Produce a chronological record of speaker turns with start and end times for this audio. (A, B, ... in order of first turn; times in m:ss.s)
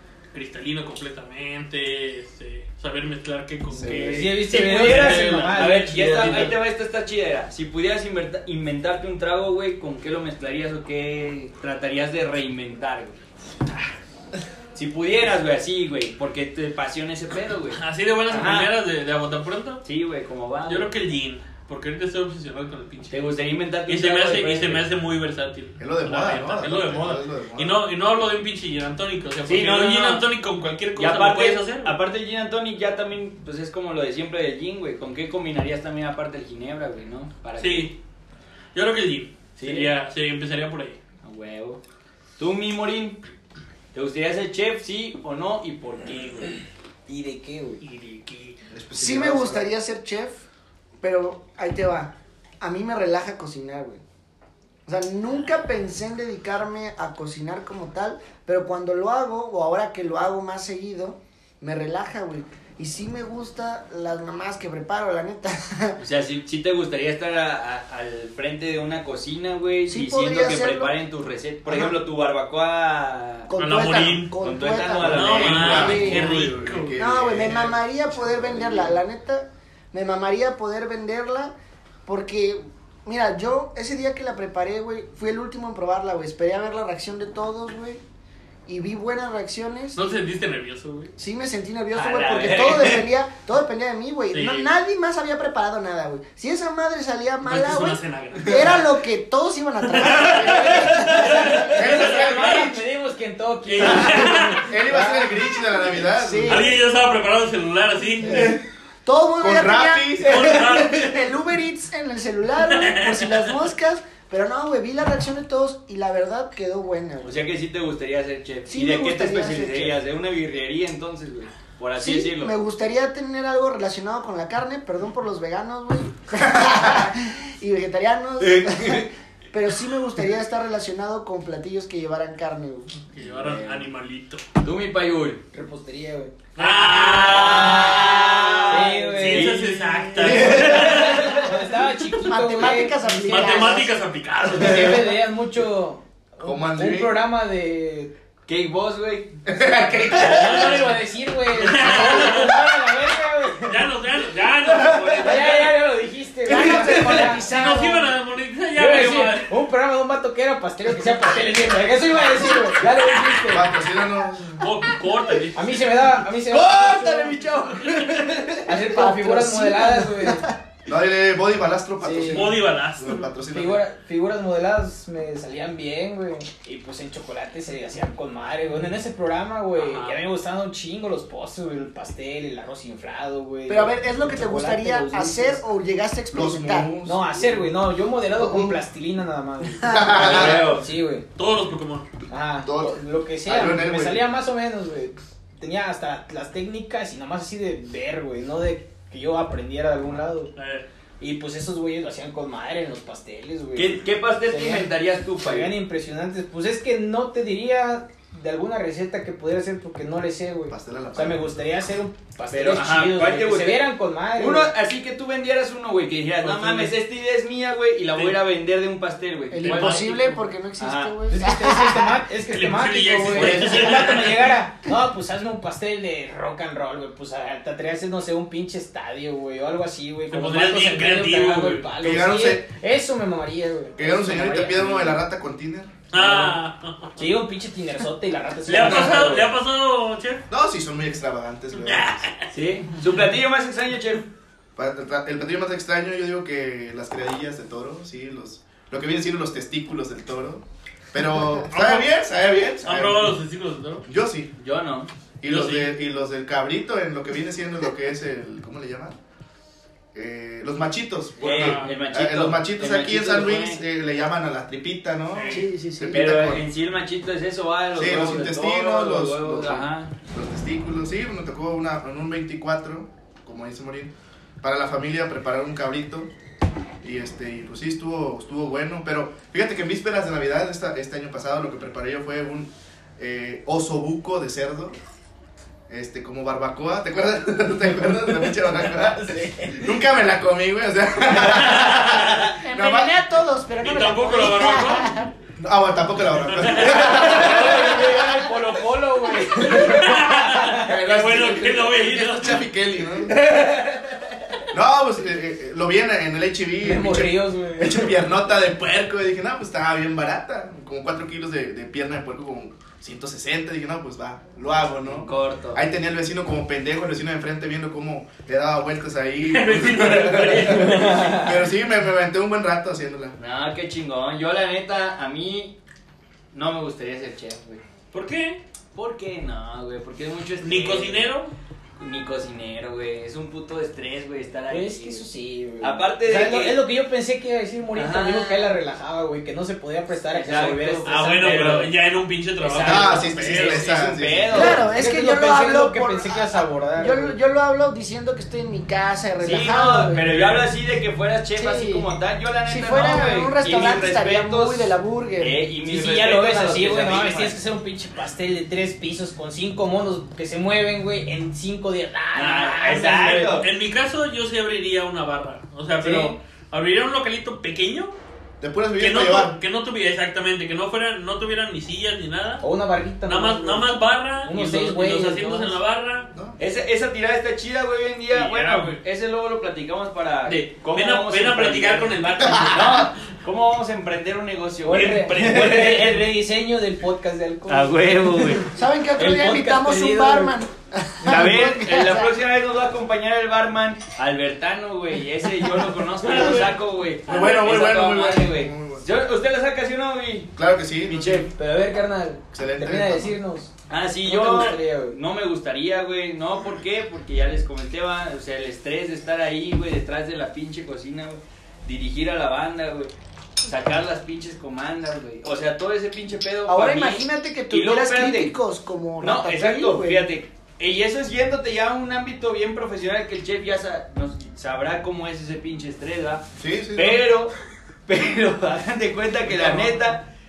0:00.3-0:06.6 A
0:03.7-0:04.2 B
0:03.8-0:06.5 C
0:04.4-0:13.2 D
0:14.7-0:18.8 D
0:17.7-0:19.8 A
0:19.8-0:20.9 D
0:20.6-0:23.3 A
0:23.1-0:24.8 D
0:23.8-0:31.9 A
0:25.8-0:27.8 B
0:29.4-0:30.2 D
0:31.0-0:37.9 D
0:37.6-0:37.9 A
0:38.7-0:41.0 A
0:39.6-0:39.9 D
0:41.2-0:41.8 D
0:42.4-0:43.2 D
0:43.9-0:46.6 D
0:47.1-0:47.8 C
0:47.8-0:48.6 A
0:48.7-0:49.7 B
0:48.9-0:50.4 E
0:51.0-0:54.0 E
0:54.8-1:06.0 E
1:06.0-1:13.5 D
1:09.9-1:11.0 E
1:11.6-1:11.9 E
1:13.5-1:16.3 E
1:13.6-1:14.3 A
1:14.4-1:16.2 D
1:15.0-1:19.0 B
1:15.0-1:17.0 A
1:17.0-1:21.5 E
1:22.0-1:28.0 E
1:28.6-1:30.0 E
1:29.9-1:31.1 A
1:31.2-1:41.8 E
1:31.9-1:33.1 D
1:34.3-1:34.7 A
1:37.4-1:38.9 A
1:39.9-1:42.7 A
1:40.2-1:41.0 B
1:40.9-1:45.3 C
1:41.7-1:42.8 B
1:43.6-1:44.7 A
1:44.6-1:46.7 B
1:46.1-1:46.8 E
1:46.4-1:48.5 A
1:48.2-1:57.4 E
1:48.2-1:48.6 B
1:49.4-1:50.8 B
1:50.2-1:51.2 A
1:52.6-1:53.5 A
1:57.2-2:02.5 D
1:58.7-2:00.0 E
2:02.0-2:13.0 E
2:06.5-2:07.1 B
2:08.4-2:09.0 D
2:13.1-2:14.5 A
2:13.2-2:13.9 D
2:14.6-2:15.4 D
2:15.5-2:16.3 C
2:16.6-2:21.4 A
2:16.6-2:21.5 D
2:17.4-2:18.0 C
2:18.7-2:19.6 C
2:19.8-2:20.8 B
2:20.2-2:23.8 C
2:22.2-2:23.9 E
2:23.2-2:25.1 A
2:24.5-2:28.1 C
2:26.4-2:27.2 B
2:28.5-2:29.4 D
2:29.4-2:30.6 B
2:30.0-2:30.8 D
2:30.1-2:33.9 C
2:30.2-2:30.9 A
2:31.5-2:32.5 A
2:33.7-2:35.7 A
2:34.7-2:35.5 D
2:35.2-2:38.1 C
2:36.5-2:37.2 B
2:36.5-2:37.7 E
2:36.6-2:37.6 D
2:37.0-2:39.5 A
2:38.7-2:43.7 C
2:43.4-2:44.7 B
2:44.6-2:45.8 A
2:45.5-2:47.4 C
2:46.5-2:48.8 D
2:47.8-2:48.1 A
2:48.6-2:50.4 C
2:48.9-2:50.6 E
2:50.9-2:53.8 B
2:52.0-2:52.5 C
2:52.3-2:53.3 A
2:53.5-3:05.6 C
2:59.8-3:00.2 A
3:03.7-3:06.9 E
3:06.3-3:07.6 B
3:07.0-3:11.2 C
3:08.4-3:08.7 E
3:09.8-3:10.4 E
3:09.8-3:10.7 B
3:10.1-3:10.9 D
3:11.4-3:12.1 A
3:12.3-3:20.5 C
3:12.6-3:14.2 B
3:20.6-3:20.8 A
3:21.2-3:34.7 C
3:23.7-3:25.7 D
3:30.7-3:31.6 B
3:32.5-3:41.2 D
3:36.4-3:36.9 A
3:39.5-3:42.2 E
3:39.6-3:40.4 A
3:41.3-3:55.2 C
3:42.5-3:44.5 A
3:43.3-3:44.1 D
3:50.3-3:51.9 A
3:52.0-3:52.7 B
3:54.0-3:55.9 B
3:56.1-3:57.2 A
3:56.1-3:56.5 C
3:57.2-3:59.5 C
3:58.6-4:00.4 A
3:58.8-3:59.1 B
4:00.5-4:02.3 B
4:01.7-4:02.5 A
4:02.5-4:04.2 D
4:04.8-4:13.4 B
4:11.7-4:12.1 A
4:12.8-4:14.0 A
4:14.0-4:14.5 B
4:14.6-4:15.1 D
4:15.4-4:19.2 B
4:15.4-4:15.9 A
4:20.1-4:26.6 B
4:21.4-4:22.0 A
4:21.4-4:23.8 D
4:25.3-4:25.7 A
4:25.5-4:26.4 E
4:26.1-4:30.1 D
4:27.9-4:36.3 B
4:37.0-4:45.0 B
4:45.9-4:53.2 B
4:48.9-4:49.8 C
4:51.4-4:52.5 A
4:52.6-4:55.3 E
4:53.8-4:55.3 A
4:55.6-4:57.8 B
4:56.4-4:57.9 A
4:56.9-5:00.8 C
4:59.6-5:02.7 A
5:00.7-5:03.4 B
5:03.4-5:04.0 C
5:03.4-5:03.8 D
5:04.7-5:23.4 B
5:06.8-5:08.2 C
5:15.0-5:15.8 D
5:19.4-5:21.5 A
5:21.0-5:21.4 C
5:23.4-5:25.7 D
5:26.5-5:27.8 D
5:28.1-5:28.6 A
5:28.9-5:31.3 D
5:30.6-5:31.5 A
5:32.0-5:35.3 D
5:34.7-5:41.9 C
5:35.8-5:36.8 D
5:37.9-5:38.8 D
5:40.3-5:41.9 D
5:41.0-5:44.0 A
5:42.6-5:44.9 D
5:42.8-5:45.0 B
5:44.5-5:46.4 E
5:44.8-5:47.4 C
5:47.0-5:50.4 E
5:49.4-5:57.6 D
5:50.3-5:50.6 A
5:51.6-5:52.1 E
5:52.6-5:55.6 E
5:55.8-6:03.6 C
6:02.3-6:03.7 D
6:03.5-6:08.1 A
6:06.0-6:06.3 C
6:08.6-6:09.6 B
6:09.0-6:12.6 A
6:12.6-6:13.9 C
6:13.2-6:16.3 A
6:14.4-6:15.8 C
6:16.6-6:26.2 D
6:18.3-6:19.0 A
6:20.4-6:23.3 A
6:22.4-6:22.9 B
6:24.8-6:30.6 C
6:24.9-6:26.1 A
6:27.7-6:28.7 D
6:28.7-6:32.3 E
6:31.2-6:41.5 D
6:36.3-6:36.6 A
6:37.2-6:39.1 B
6:40.6-6:41.5 B
6:41.4-6:45.2 C
6:42.5-6:43.4 B
6:43.9-6:53.1 D
6:53.6-6:58.5 D
6:56.7-7:00.2 E
6:59.2-7:07.5 D
7:06.6-7:07.3 B
7:08.1-7:10.2 D